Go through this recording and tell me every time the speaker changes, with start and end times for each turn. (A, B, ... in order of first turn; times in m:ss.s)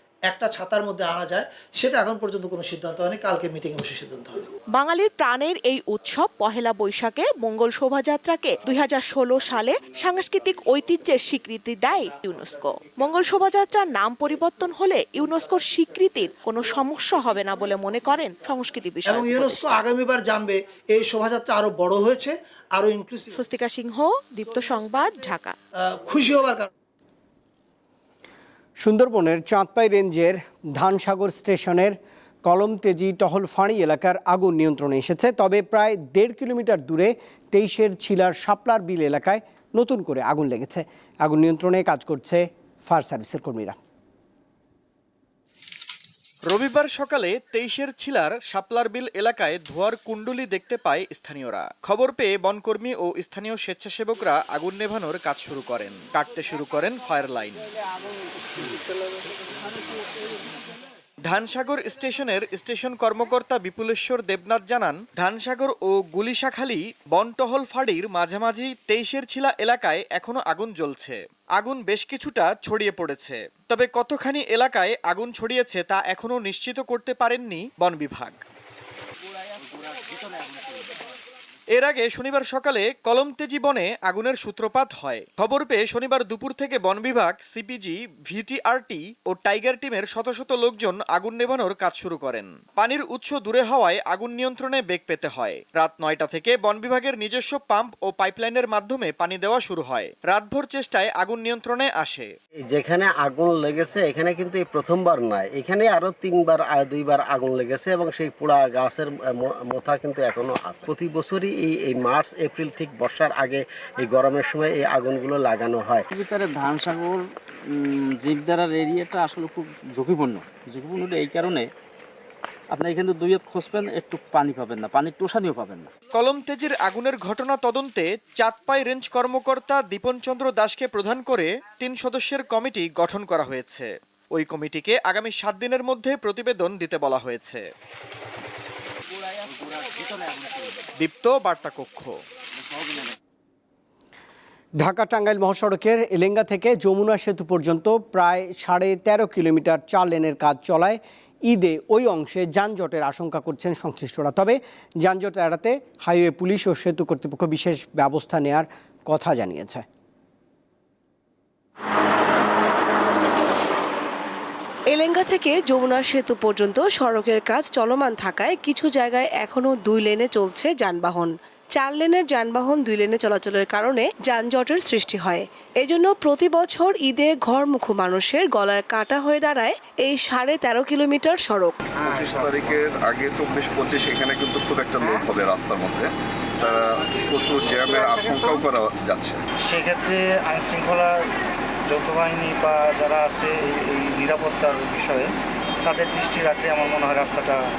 0:00.2-0:04.5 A
0:04.7-0:19.8 B
0:19.0-0:23.4 A
0:23.3-0:25.6 B
0:25.9-0:26.7 A
0:28.8-0:43.8 C
0:46.4-0:57.7 D
1:01.2-1:18.4 D
1:21.7-1:42.3 D
1:42.7-1:56.0 E
1:56.1-2:01.6 F
2:02.7-2:05.9 F
2:06.1-2:17.7 D
2:21.0-2:22.2 D
2:24.8-2:39.8 C
2:44.9-3:01.8 G
3:02.0-3:02.8 H
3:02.1-3:09.4 I
3:05.0-3:05.3 H
3:07.6-3:08.6 H
3:09.6-3:11.3 H
3:11.9-3:15.3 H
3:15.8-3:17.6 H